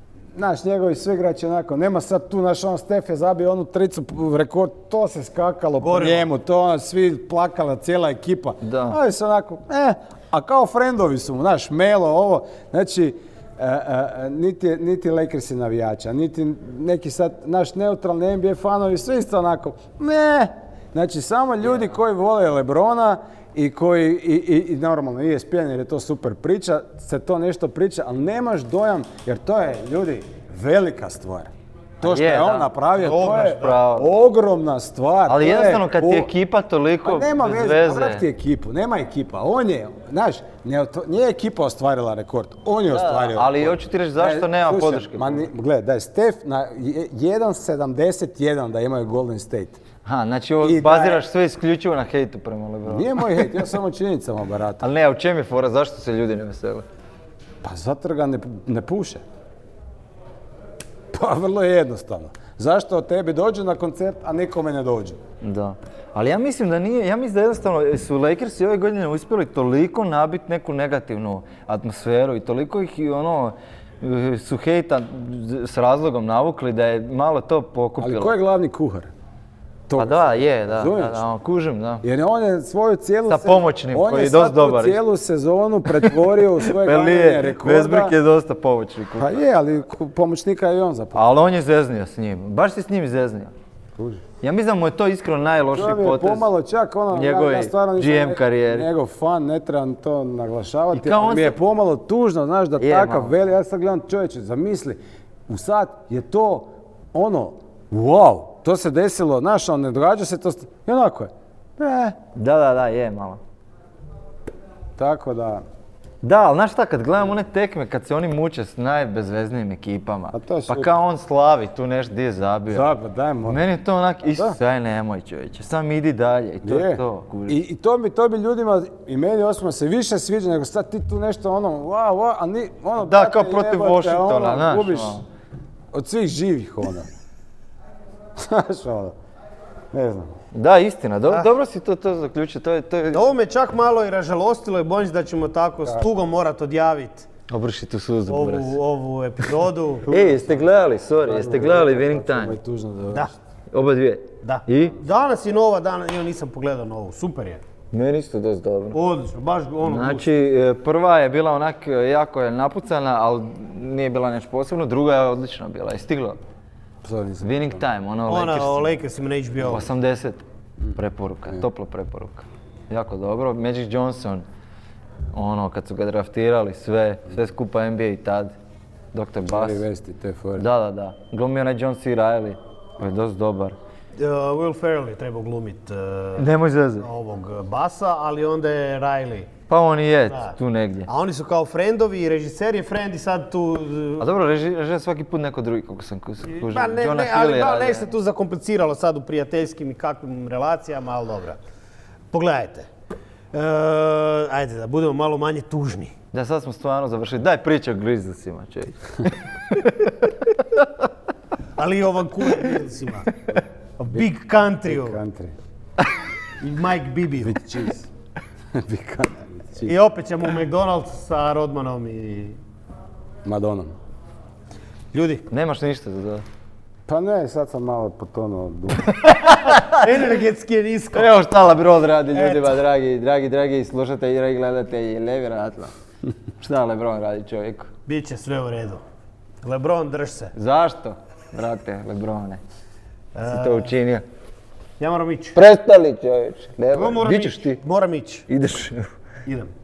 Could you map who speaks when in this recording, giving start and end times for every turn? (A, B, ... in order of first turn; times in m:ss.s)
0:00.4-0:36.3 A
0:05.8-0:06.3 B
0:08.6-0:09.0 C
0:32.0-0:34.1 C
0:33.0-0:33.8 B
0:35.3-0:38.2 C
0:37.0-0:49.8 A
0:42.9-0:45.5 C
0:50.0-0:53.2 C
0:50.6-0:51.2 A
0:52.9-0:54.9 A
0:54.8-0:56.9 C
0:57.6-0:59.2 A
1:01.1-1:05.2 A
1:05.4-1:18.4 C
1:18.0-1:19.1 A
1:19.9-1:21.2 A
1:20.0-1:22.0 C
1:22.0-1:28.2 A
1:23.3-1:25.0 C
1:25.9-1:29.4 C
1:29.2-1:31.3 A
1:31.1-1:33.5 C
1:34.0-1:34.2 A
1:34.4-1:36.5 C
1:35.7-1:52.2 A
1:37.1-1:38.9 C
1:40.9-1:41.6 C
1:42.8-1:43.3 C
1:52.3-1:53.4 C
1:55.0-1:55.6 A
1:56.2-2:02.9 C
2:00.3-2:00.9 A
2:02.7-2:03.6 A
2:03.5-2:07.6 C
2:06.6-2:15.2 A
2:13.0-2:15.2 C
2:15.9-2:17.1 A
2:18.4-2:19.2 A
2:19.9-2:20.3 A
2:20.5-2:23.2 C
2:23.1-2:27.3 B
2:27.5-2:28.8 C
2:28.3-2:30.1 B
2:30.1-2:30.7 A
2:30.1-2:32.6 C
2:31.2-2:33.4 A
2:33.7-2:35.0 C
2:34.4-2:37.6 B
2:37.9-2:39.0 C
2:38.9-2:40.3 B
2:39.8-2:46.4 C
2:47.0-2:47.8 A
2:47.4-2:48.9 C
2:48.3-2:49.9 B
2:49.6-2:50.4 C
2:50.9-2:54.5 C
2:55.3-2:58.5 C
2:59.1-2:59.8 C
2:59.5-3:00.7 A
3:00.6-3:03.8 C
3:04.2-3:06.5 B
3:06.4-3:07.1 C
3:07.0-3:09.5 B
3:09.7-3:11.1 C
3:10.3-3:10.6 B
3:11.1-3:14.3 B
3:14.2-3:18.1 C
3:16.5-3:21.6 B
3:22.3-3:22.9 B
3:23.5-3:26.2 B
3:26.3-3:30.9 C
3:31.8-3:33.3 B
3:33.5-3:34.3 A
3:34.0-3:35.2 B
3:34.8-3:35.6 A
3:36.6-3:37.6 B
3:37.4-3:38.1 A
3:38.7-3:39.9 A
3:39.8-3:42.6 B
3:43.4-3:43.9 A
3:45.1-3:45.4 B
3:45.5-3:46.4 C
3:47.1-3:49.2 A
3:49.2-3:50.0 C
3:49.6-3:51.3 B
3:51.1-3:55.9 C
3:52.3-3:52.8 B
3:56.6-3:57.9 C
3:58.1-3:59.0 B
3:59.6-4:00.5 B
4:00.6-4:02.6 C
4:03.4-4:03.9 B
4:03.5-4:04.2 C
4:05.0-4:05.6 B
4:05.6-4:07.8 C
4:06.9-4:08.5 B
4:08.5-4:09.1 C
4:09.5-4:09.7 B